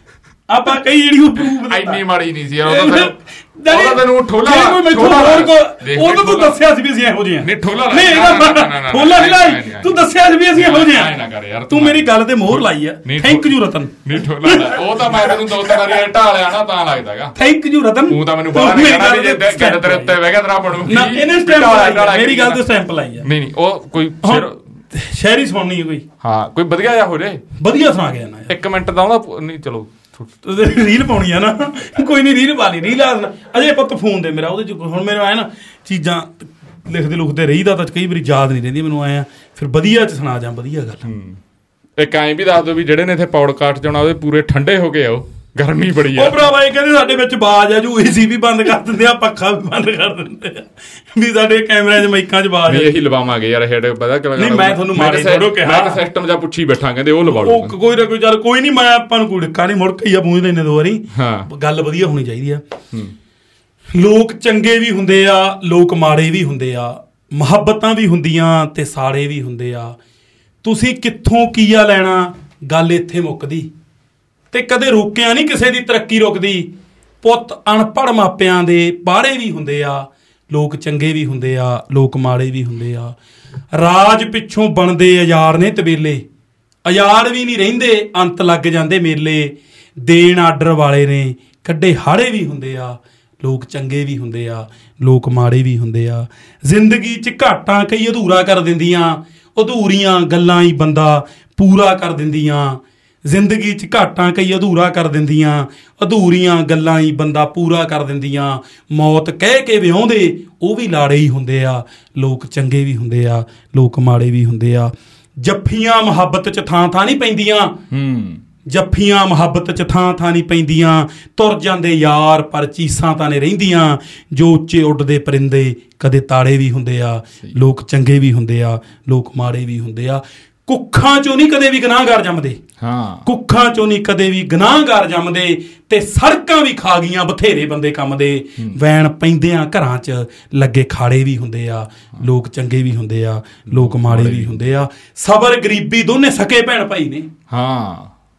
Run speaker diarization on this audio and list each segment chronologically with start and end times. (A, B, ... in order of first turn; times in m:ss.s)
0:00.5-0:02.0 A
0:01.6-0:03.1 B
0:02.6-0:11.2 A
0:03.7-0:06.6 B
0:07.4-0:10.0 B
0:10.5-0:17.4 B
0:11.7-0:16.0 A
0:17.4-0:20.2 A
0:18.1-0:22.6 B
0:20.8-0:23.3 A
0:23.2-0:24.6 B
0:24.2-0:26.1 A
0:26.2-0:27.4 B
0:27.6-0:28.5 A
0:28.5-0:30.3 B
0:30.4-0:41.0 A
0:41.0-0:41.4 B
0:42.0-0:46.4 B
0:46.1-0:53.0 A
0:52.7-0:57.8 B
0:54.4-0:56.0 A
0:57.2-1:02.6 A
1:01.1-1:01.5 B
1:03.9-1:10.0 A
1:10.6-1:13.7 A
1:14.5-1:16.7 A
1:17.2-1:23.2 A
1:23.7-1:26.2 A
1:26.8-1:57.8 A
1:57.9-1:58.4 B
1:58.7-2:12.6 A
2:12.8-2:13.3 B
2:13.2-2:27.3 A
2:23.7-2:24.7 B
2:27.5-2:28.1 B